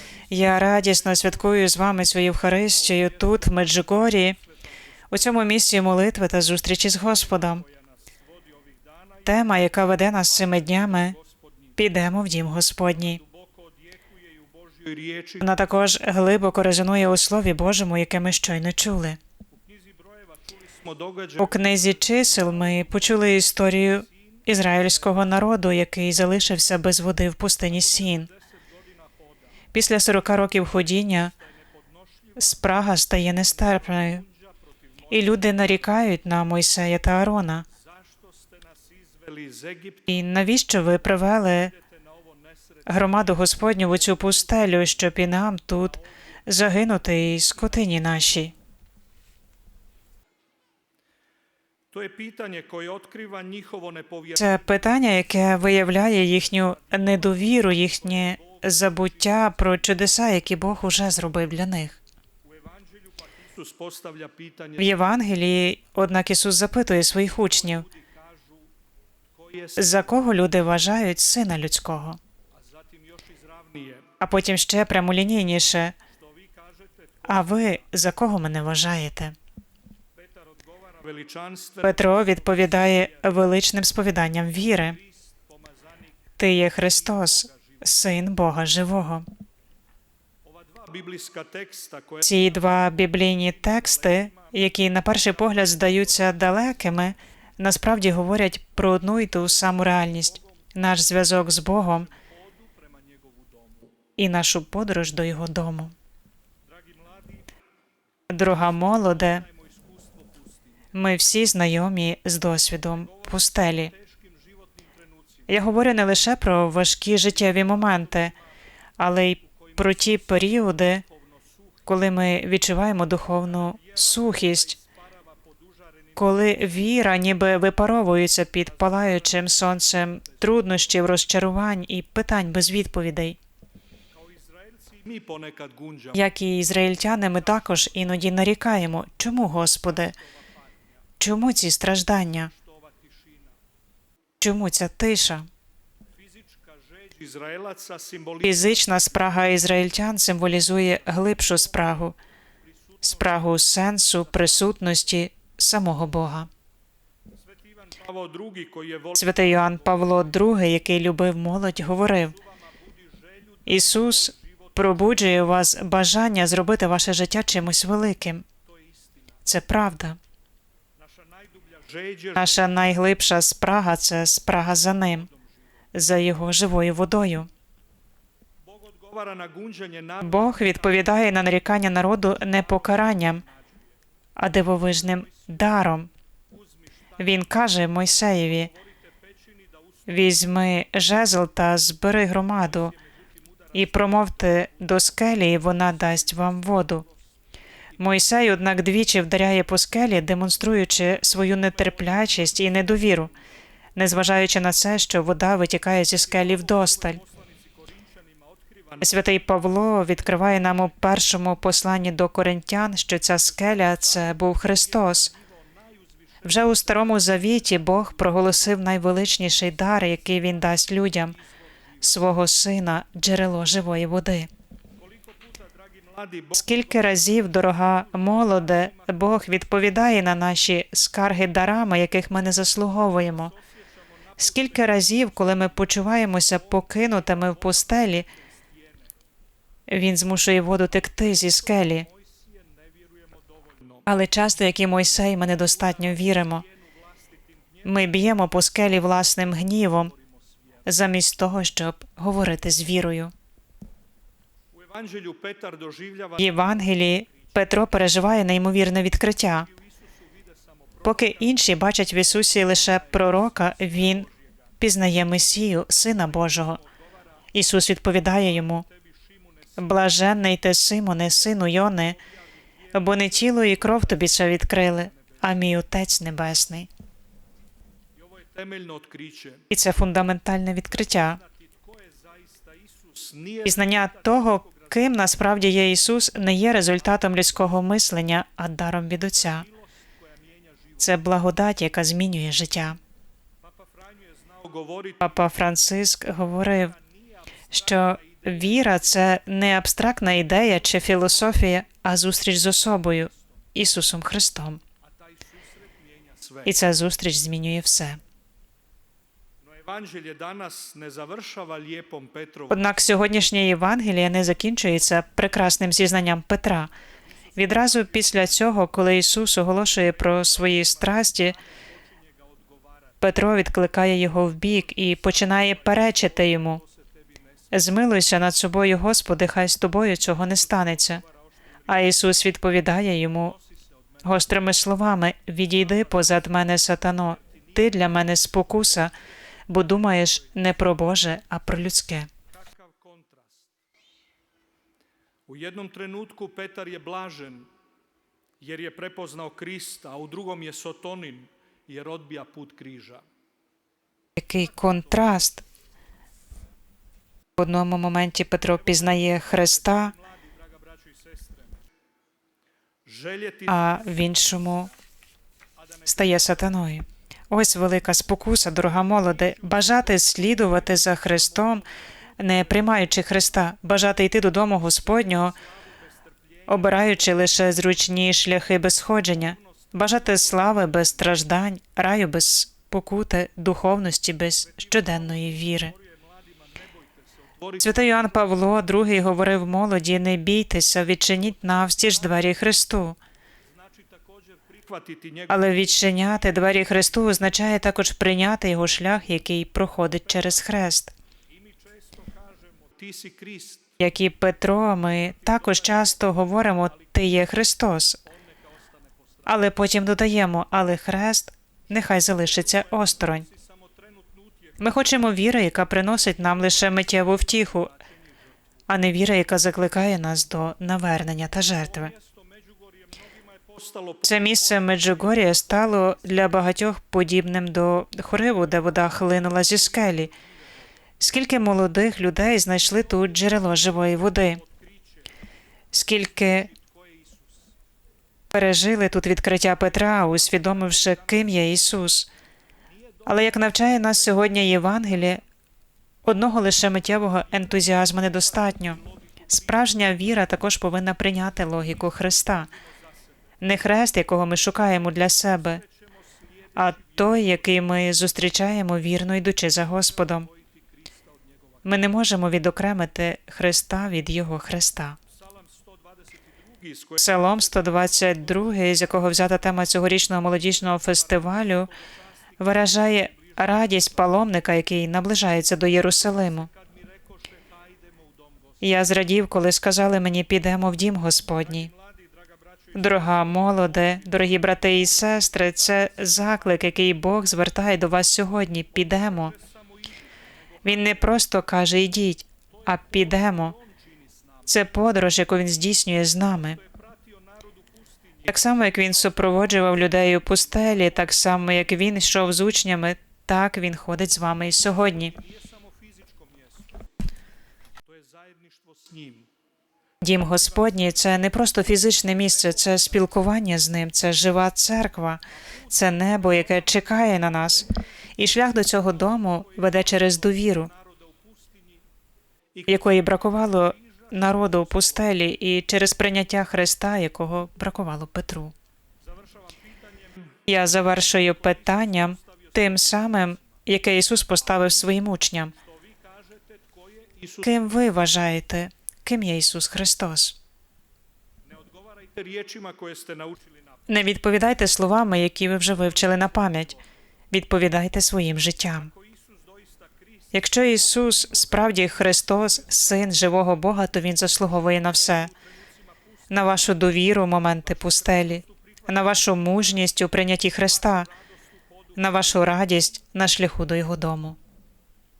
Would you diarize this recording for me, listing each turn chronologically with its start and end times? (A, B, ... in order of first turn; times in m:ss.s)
0:00.3-0:04.4 A
0:05.1-0:07.6 A
0:09.2-0:11.2 A
0:11.8-0:13.2 A
0:13.2-0:15.4 B
0:15.4-0:19.2 A
0:19.6-0:22.2 B
0:21.4-0:28.3 A
0:27.9-0:29.4 B
0:29.7-0:31.3 A
0:32.4-0:34.2 A
0:35.1-0:37.7 A
0:37.9-0:40.1 B
0:40.1-0:41.7 A
0:42.9-0:48.5 A
0:51.9-0:54.6 B
0:54.4-1:02.0 A
0:58.0-0:58.6 B
1:02.5-1:04.9 B
1:04.8-1:07.9 A
1:07.6-1:08.6 B
1:09.4-1:09.8 B
1:09.8-1:12.2 A
1:12.6-1:14.2 B
1:14.2-1:16.0 A
1:16.3-1:17.3 B
1:17.3-1:19.4 A
1:20.2-1:22.1 B
1:21.8-1:25.0 A
1:25.1-1:25.7 B
1:26.4-1:29.3 A
1:27.3-1:27.8 B
1:30.5-1:32.5 B
1:32.2-1:42.1 A
1:33.7-1:34.5 B
1:42.2-1:43.8 B
1:44.2-1:45.9 A
1:46.7-1:47.5 B
1:48.3-1:49.4 A
1:49.3-1:50.6 B
1:50.9-1:53.9 A
1:54.0-1:55.0 B
1:55.5-1:58.3 A
1:59.0-2:01.0 A
2:01.9-2:04.8 A
2:03.7-2:04.8 B
2:06.2-2:13.4 A
2:14.2-2:16.2 B
2:16.1-2:20.2 A
2:21.2-2:22.5 A
2:22.6-2:23.4 B
2:24.4-2:25.5 A
2:26.2-2:28.6 B
2:28.4-2:32.2 A
2:33.0-2:36.5 A
2:37.5-2:40.0 B
2:39.2-2:42.4 A
2:42.7-2:44.5 B
2:43.7-2:48.4 A
2:49.5-2:50.2 A
2:51.0-2:52.6 B
2:52.3-2:55.3 A
2:55.9-2:57.5 A
2:58.7-3:00.7 B
3:00.2-3:03.4 A
3:04.4-3:06.1 A
3:07.2-3:08.7 A
3:10.1-3:12.9 A
3:13.7-3:17.1 A
3:18.0-3:23.3 A
3:24.0-3:27.2 A
3:26.4-3:29.0 B
3:29.0-3:35.3 A
3:34.1-3:36.0 B
3:36.4-3:41.4 A
3:42.0-3:44.5 A
3:45.0-3:47.3 B
3:46.5-3:53.5 A
3:48.4-3:49.1 B
3:54.4-3:58.3 A
3:58.3-3:58.7 B
3:59.9-4:02.1 A
4:02.0-4:02.6 B
4:03.4-4:04.0 B
4:04.1-4:06.6 A
4:06.6-4:06.8 B
4:07.8-4:10.1 A
4:10.9-4:13.3 A
4:14.7-4:16.5 B
4:16.4-4:19.7 A
4:20.9-4:21.2 B
4:21.0-4:24.3 A
4:24.1-4:24.5 B
4:24.8-4:26.8 A
4:27.5-4:28.9 A
4:29.8-4:32.2 A
4:32.9-4:36.9 A
4:38.2-4:39.7 B
4:39.7-4:41.4 A
4:41.4-4:43.8 B
4:43.6-4:49.7 A
4:49.6-4:49.8 B
4:50.4-4:51.0 B
4:51.0-4:53.0 A
4:53.6-4:55.2 B
4:55.2-4:57.0 A
4:57.7-5:04.8 A
4:58.0-4:58.6 B
5:05.5-5:06.7 B
5:06.6-5:08.2 A
5:09.7-5:12.8 B
5:12.7-5:16.9 A
5:17.6-5:21.6 A
5:23.2-5:26.8 A
5:27.7-5:31.2 A
5:31.9-5:33.6 A
5:34.2-5:39.1 A
5:39.7-5:42.3 A
5:42.6-5:43.6 B
5:45.5-5:47.7 B
5:48.6-5:53.2 B
5:54.4-5:55.6 A
5:57.6-6:00.1 A
5:59.5-6:01.7 B
6:03.1-6:03.7 B
6:03.7-6:04.9 A
6:06.1-6:11.9 A
6:09.6-6:10.7 B
6:12.4-6:15.6 A
6:15.4-6:16.2 B
6:16.7-6:25.9 A
6:16.7-6:17.0 B
6:20.2-6:20.8 B
6:24.8-6:27.9 B
6:27.8-6:33.2 A
6:33.8-6:35.8 B
6:35.5-6:41.2 A
6:41.6-6:43.9 B
6:44.0-6:48.2 A
6:49.5-6:53.5 A
6:52.6-6:54.6 B
6:54.8-6:57.9 A
6:56.3-6:58.4 B
6:58.9-7:02.1 A
7:01.9-7:05.6 B
7:04.2-7:10.4 A
7:11.2-7:14.6 A
7:15.9-7:16.7 A
7:16.4-7:17.4 B
7:18.5-7:22.3 A
7:23.3-7:25.4 A
7:26.2-7:32.7 A
7:33.6-7:35.8 A
7:36.8-7:40.5 A
7:41.8-7:45.2 A
7:45.4-7:48.4 B
7:47.2-7:51.9 A
7:51.1-7:52.2 B
7:52.6-7:56.7 A
7:52.7-7:53.6 B
7:56.3-7:58.0 B
7:58.8-8:01.9 A
8:01.7-8:04.4 B
8:02.9-8:09.5 A
8:09.3-8:10.1 B
8:10.8-8:13.8 A
8:13.2-8:14.3 B
8:14.7-8:16.8 A
8:16.7-8:19.4 B
8:18.5-8:25.4 A
8:25.4-8:26.8 B
8:28.0-8:29.5 B
8:30.2-8:40.9 A
8:32.8-8:33.1 B
8:35.9-8:37.0 B
8:39.7-8:41.9 B
8:42.9-8:48.7 A
8:49.3-8:50.6 B
8:50.7-8:55.7 A
8:51.9-8:53.4 B
8:56.0-8:57.7 B
8:57.6-9:00.6 A
9:01.7-9:03.9 B
9:04.1-9:07.0 A
9:06.4-9:06.9 B
9:07.5-9:09.1 A
9:09.1-9:10.5 B
9:10.5-9:15.5 A
9:15.3-9:16.1 B
9:16.5-9:21.3 A
9:18.2-9:18.7 B
9:22.2-9:24.6 A